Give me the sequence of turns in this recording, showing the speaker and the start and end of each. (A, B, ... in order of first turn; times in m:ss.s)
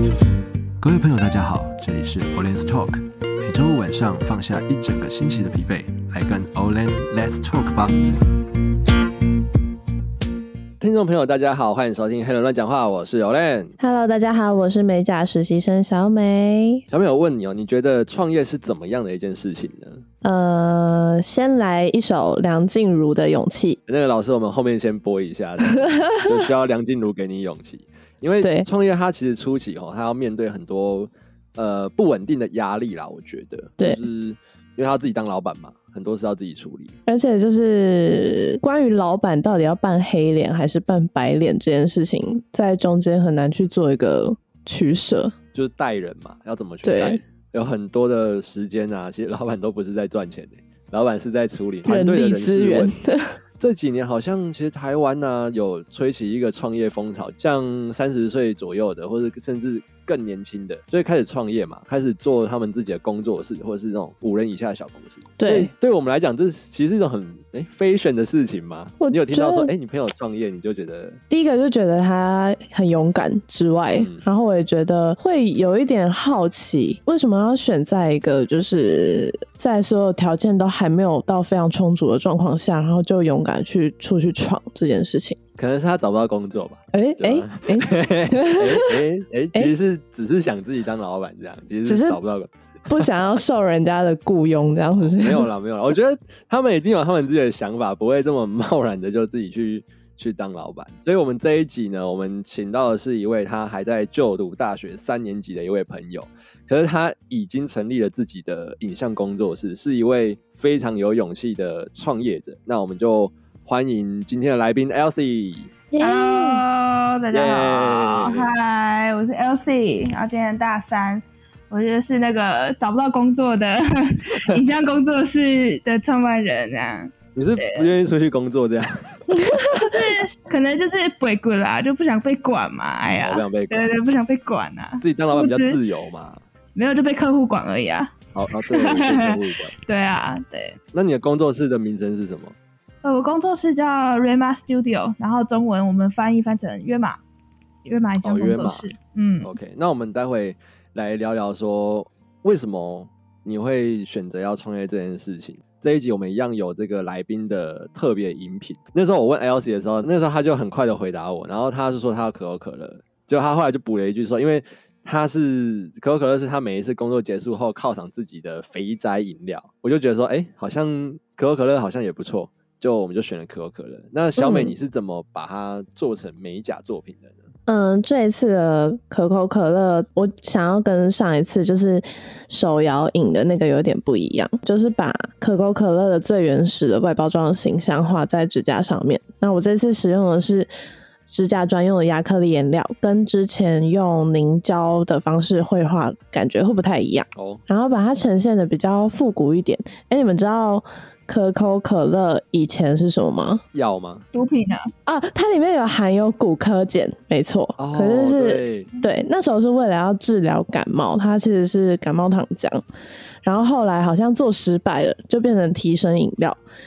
0:00.8-0:08.0 A
0:10.8-0:13.8 A
0:13.8-0:16.8 B
0:16.9-0:20.0 A
0:20.2-0:23.8 B
0:23.9-0:37.0 A
0:28.4-0:28.7 B
0:37.1-0:45.4 B
0:45.5-0:52.9 A
0:46.8-0:47.2 B
0:51.8-0:53.4 B
0:53.6-1:11.2 A
1:05.4-1:05.7 B
1:09.0-1:09.7 B
1:11.3-1:25.4 B
1:14.0-1:14.2 A
1:25.6-1:33.1 A
1:26.9-1:29.0 B
1:31.8-1:32.2 B
1:32.9-1:35.5 B
1:35.0-1:55.7 A
1:55.9-1:56.6 B
1:56.0-2:07.9 C
1:57.3-1:58.5 A
2:07.4-2:09.2 A
2:09.4-2:09.9 B
2:09.8-2:15.8 C
2:13.2-2:13.9 A
2:15.0-2:16.4 A
2:16.8-2:18.1 C
2:18.4-2:19.7 A
2:18.7-2:20.8 C
2:20.9-2:22.6 A
2:23.0-2:27.2 C
2:27.8-2:29.5 C
2:28.2-2:28.8 A
2:29.4-2:57.5 A
2:54.4-2:54.8 B
2:57.7-3:10.7 B
3:11.3-3:23.6 B
3:17.4-3:17.6 A
3:23.7-3:24.3 A
3:24.3-3:24.9 C
3:25.1-3:32.8 B
3:27.8-3:28.9 A
3:33.4-3:36.6 B